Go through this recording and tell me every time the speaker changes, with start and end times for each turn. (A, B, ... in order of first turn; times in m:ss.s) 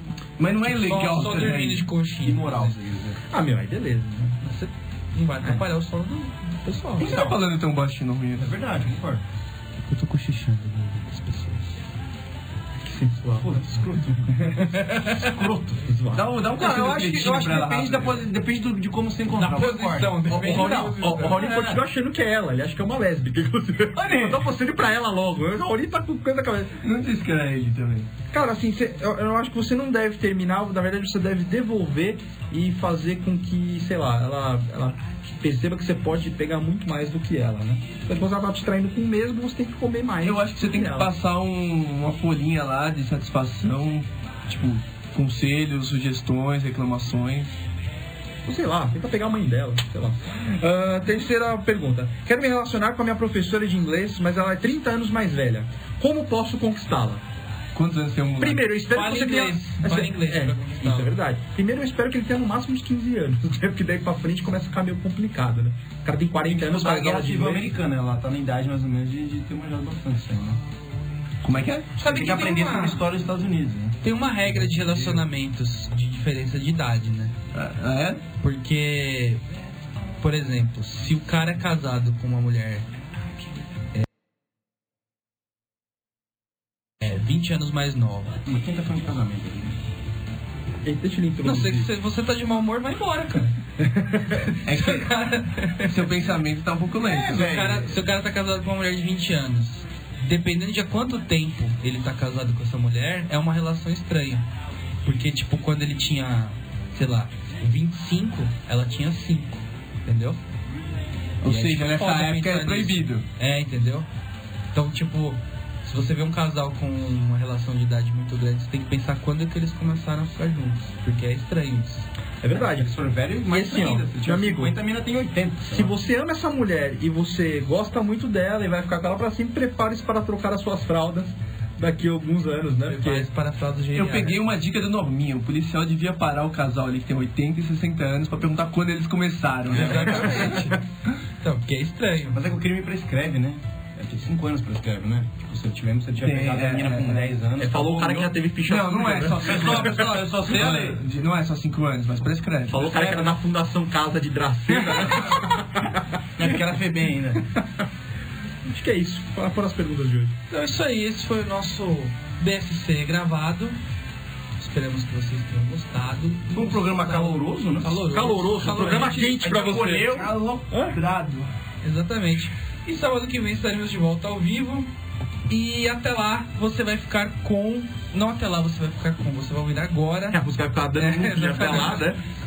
0:00.4-0:01.9 A
0:00.6-0:02.8 B
0:02.2-0:03.2 C
0:03.3-0:04.4 D
0:04.4-0:07.2 B
0:07.0-0:07.4 C
0:07.0-0:08.5 A
0:08.4-0:09.2 C
0:09.9-0:11.6 B
0:12.8-0:13.6 D
0:13.4-0:14.6 C
0:14.4-0:15.3 D
0:15.1-0:15.8 C
0:15.8-0:16.3 D
0:16.1-0:18.2 A
0:16.3-0:21.8 C
0:19.3-0:21.6 B
0:20.3-0:26.8 D
0:24.0-0:24.5 C
0:26.8-0:28.1 A
0:28.3-0:41.1 D
0:40.2-0:47.5 A
0:48.5-0:57.2 D
0:57.7-0:58.7 A
0:58.4-1:07.7 D
0:58.9-1:01.2 B
1:06.5-1:10.6 C
1:11.4-1:12.0 A
1:12.0-1:14.0 C
1:12.0-1:13.0 B
1:14.0-1:17.4 B
1:17.5-1:18.2 A
1:18.4-1:19.4 B
1:20.2-1:22.9 B
1:27.0-1:28.4 B
1:28.5-1:29.8 C
1:30.8-1:31.9 D
1:31.4-1:33.6 B
1:33.8-1:34.6 D
1:34.6-1:35.1 A
1:34.7-1:36.2 B
1:35.8-1:37.7 A
1:37.0-1:38.0 C
1:37.3-1:44.5 B
1:45.0-1:50.4 B
1:51.4-1:53.3 A
1:51.4-1:54.1 B
1:54.7-2:02.1 B
2:02.4-2:02.9 D
2:02.5-2:05.9 C
2:03.5-2:04.7 D
2:05.7-2:13.3 D
2:12.9-2:14.4 B
2:14.0-2:20.5 A
2:19.7-2:20.8 B
2:19.9-2:20.7 D
2:21.4-2:22.4 B
2:22.3-2:28.4 C
2:26.2-2:27.4 A
2:27.6-2:30.0 D
2:28.7-2:33.0 A
2:29.4-2:31.0 C
2:32.7-2:36.4 D
2:32.8-2:33.4 C
2:34.7-2:35.5 C
2:36.4-2:37.5 C
2:38.7-2:40.4 D
2:40.5-2:43.8 B
2:44.6-2:49.3 B
2:46.5-2:48.0 C
2:48.0-2:50.2 D
2:48.7-2:50.3 C
2:49.5-2:51.5 A
2:50.7-2:51.0 D
2:51.8-2:54.9 B
2:55.5-3:00.4 B
3:00.3-3:02.2 D
3:01.0-3:02.0 B